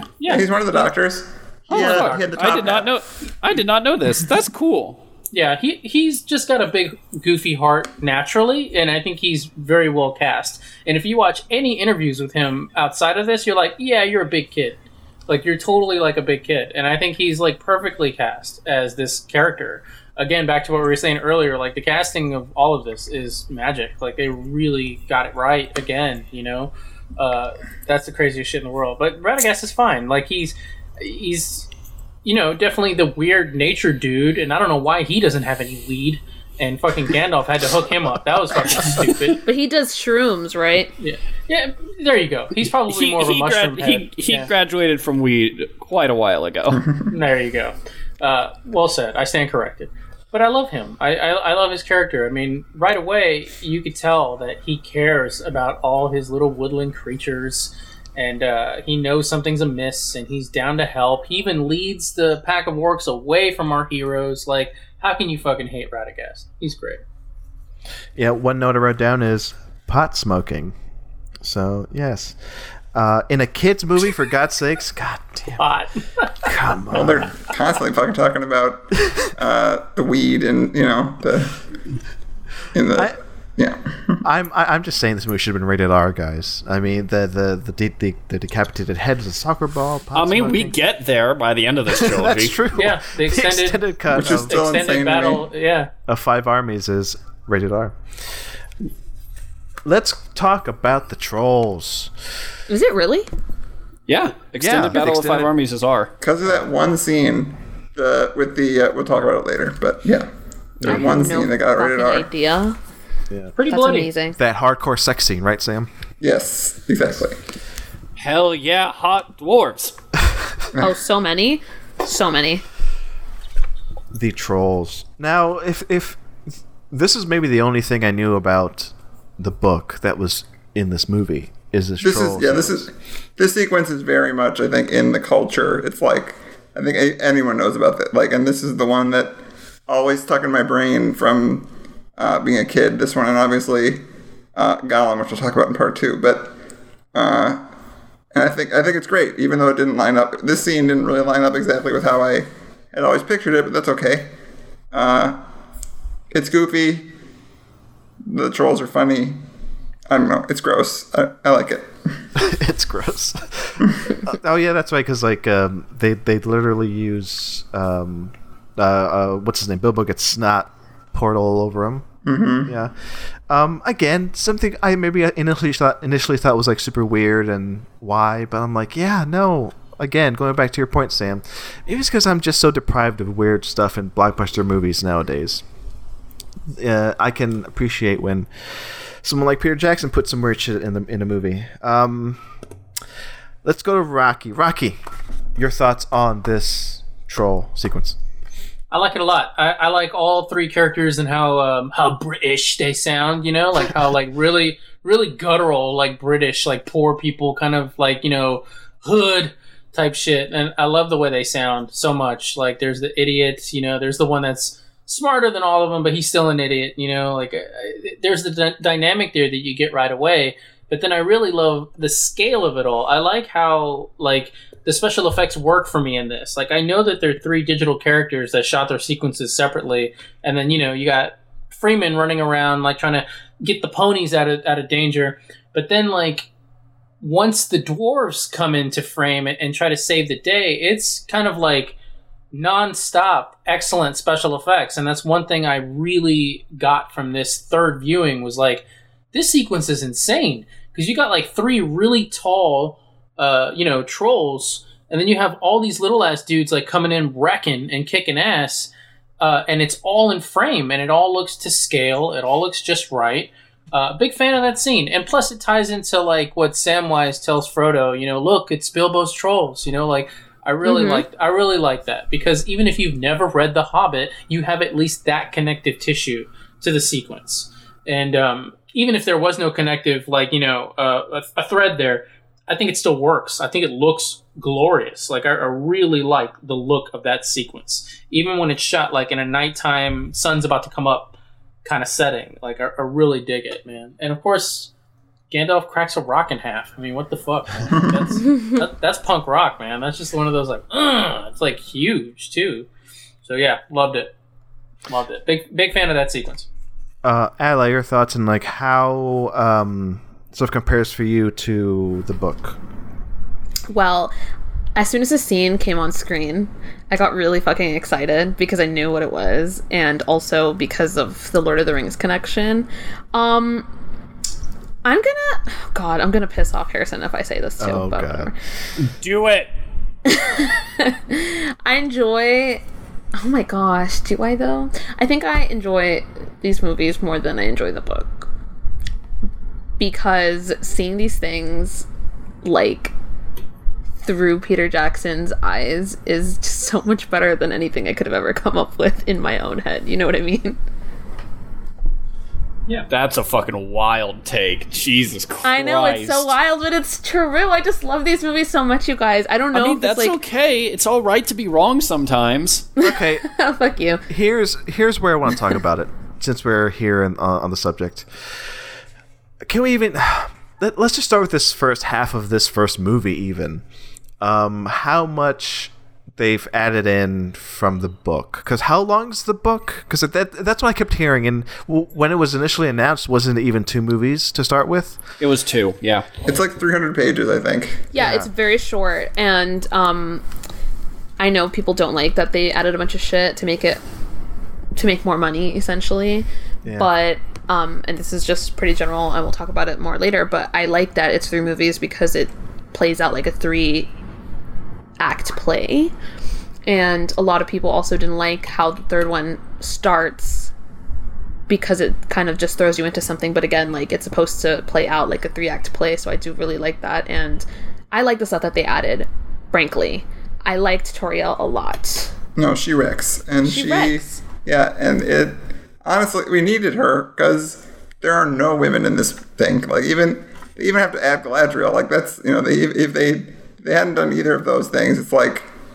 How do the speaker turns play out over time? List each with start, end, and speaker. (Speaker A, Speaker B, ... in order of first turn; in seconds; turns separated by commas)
Speaker A: 0.2-0.5, Speaker B: 0.2-3.0, Speaker A: 1.7-2.7, Speaker C: 1.7-5.0, Speaker A: 5.3-31.7, Speaker A: 32.2-39.4, Speaker D: 39.4-40.9, Speaker A: 41.0-44.5, Speaker C: 42.9-46.8, Speaker B: 46.7-47.0, Speaker A: 47.1-67.0, Speaker E: 68.2-70.7, Speaker E: 71.4-72.4, Speaker E: 72.9-75.6, Speaker A: 75.6-76.5, Speaker E: 76.4-77.3, Speaker B: 76.9-81.6, Speaker E: 79.0-79.3, Speaker B: 82.7-84.2, Speaker E: 84.2-90.7, Speaker C: 90.1-92.6, Speaker E: 91.9-94.6, Speaker A: 92.7-95.9, Speaker B: 94.1-95.5, Speaker E: 96.1-98.3, Speaker E: 99.8-102.1, Speaker D: 102.7-103.3, Speaker C: 104.1-106.1, Speaker E: 104.6-105.5, Speaker B: 106.2-110.3, Speaker E: 110.8-111.3, Speaker B: 110.8-112.3, Speaker D: 110.8-112.8, Speaker A: 113.5-114.1, Speaker D: 113.7-114.4, Speaker E: 114.4-115.9, Speaker B: 116.2-117.4, Speaker C: 118.2-119.9, Speaker D: 120.8-122.6, Speaker E: 124.1-126.2, Speaker E: 126.9-132.9, Speaker B: 132.0-144.0, Speaker B: 144.6-146.5, Speaker B: 147.1-147.6, Speaker B: 148.3-154.3, Speaker B: 154.9-155.4, Speaker B: 156.3-157.1, Speaker B: 158.2-159.4, Speaker B: 160.1-161.9, Speaker E: 162.3-172.1, Speaker B: 172.2-172.7, Speaker E: 172.6-185.6, Speaker E: 186.7-192.4, Speaker E: 193.6-195.0, Speaker E: 195.6-198.2, Speaker A: 198.9-236.5, Speaker A: 237.2-241.9, Speaker A: 242.5-294.9, Speaker D: 270.8-271.2, Speaker A: 295.5-302.9, Speaker B: 297.9-298.2, Speaker A: 303.4-304.3, Speaker A: 305.1-306.7, Speaker E: 307.2-312.8, Speaker D: 313.9-314.3, Speaker D: 314.9-323.9, Speaker D: 325.0-328.5, Speaker E: 327.8-328.5, Speaker C: 329.0-329.7, Speaker D: 330.2-332.8, Speaker D: 333.3-338.5, Speaker D: 340.0-342.1, Speaker D: 342.6-343.1, Speaker D: 344.2-350.8, Speaker C: 353.1-356.5, Speaker D: 355.6-360.4, Speaker C: 359.7-362.9, Speaker E: 363.0-363.5, Speaker D: 363.0-364.2, Speaker E: 364.3-368.9, Speaker E: 369.6-373.8, Speaker E: 374.4-385.2, Speaker C: 385.4-386.3, Speaker B: 386.4-388.1, Speaker D: 388.1-390.4, Speaker E: 388.1-388.5, Speaker D: 391.4-394.0, Speaker D: 394.9-404.1, Speaker E: 396.8-397.1, Speaker D: 405.2-406.1, Speaker D: 406.9-410.7, Speaker D: 411.7-422.3, Speaker B: 422.6-435.7, Speaker D: 423.6-424.4